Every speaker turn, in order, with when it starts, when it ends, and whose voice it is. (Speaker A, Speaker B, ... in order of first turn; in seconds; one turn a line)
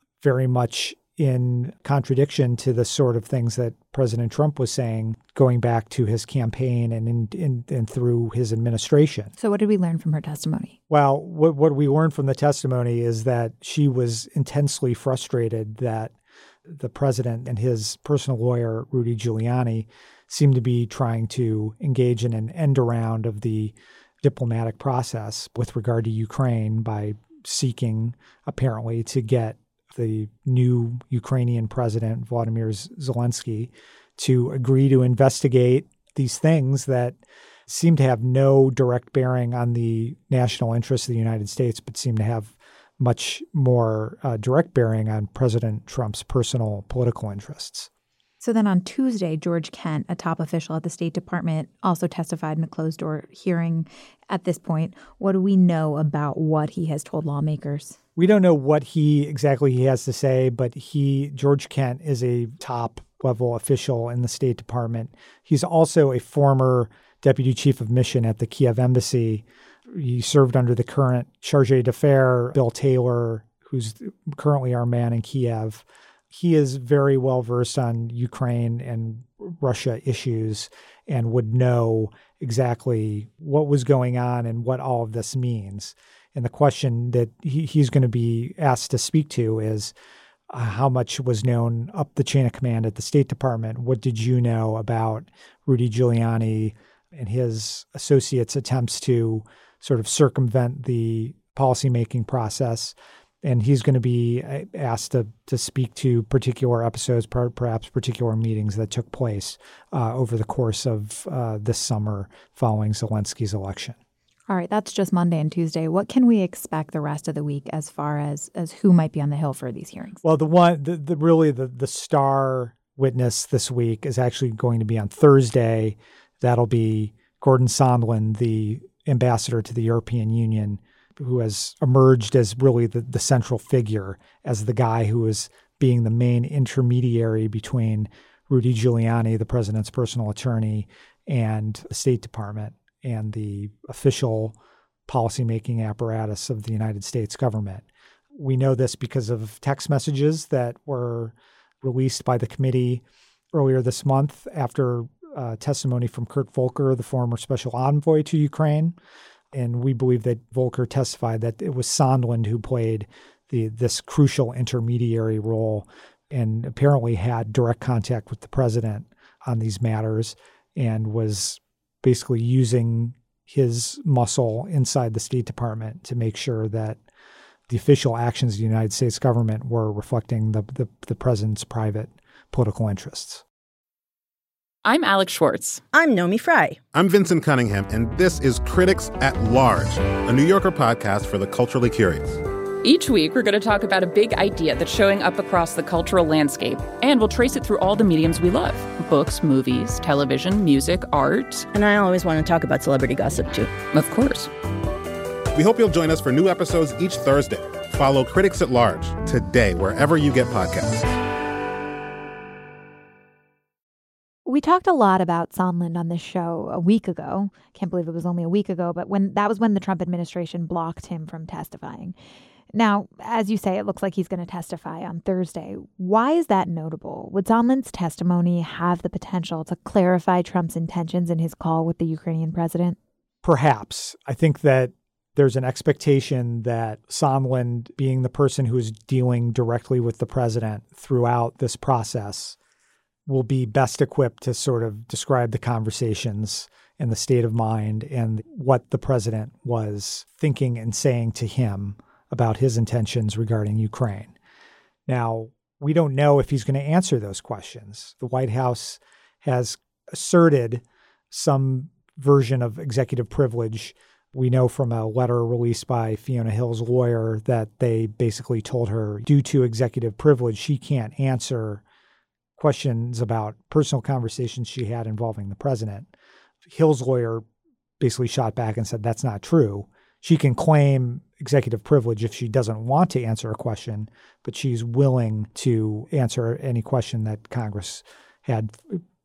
Speaker A: 0.2-9.3
Speaker B: 9.4-10.8
Speaker A: 10.9-16.1
Speaker A: 16.7-37.2
Speaker A: 37.7-47.9
Speaker B: 48.4-58.0
Speaker A: 58.2-89.9
Speaker A: 90.5-114.0
Speaker B: 114.5-120.2
Speaker A: 120.2-144.6
Speaker A: 145.1-159.0
Speaker A: 159.5-177.0
Speaker A: 177.7-183.4
Speaker C: 184.8-185.8
Speaker D: 185.9-186.8
Speaker E: 186.9-192.4
Speaker C: 192.8-201.7
Speaker D: 201.7-203.9
Speaker C: 203.9-204.5
Speaker E: 205.5-211.1
Speaker B: 214.5-222.2
Speaker B: 222.7-233.0
Speaker A: 233.4-242.6
Speaker A: 243.2-254.3
Speaker A: 255.1-271.8
Speaker A: 272.6-276.1
Speaker A: 276.7-277.4
Speaker A: 278.0-289.0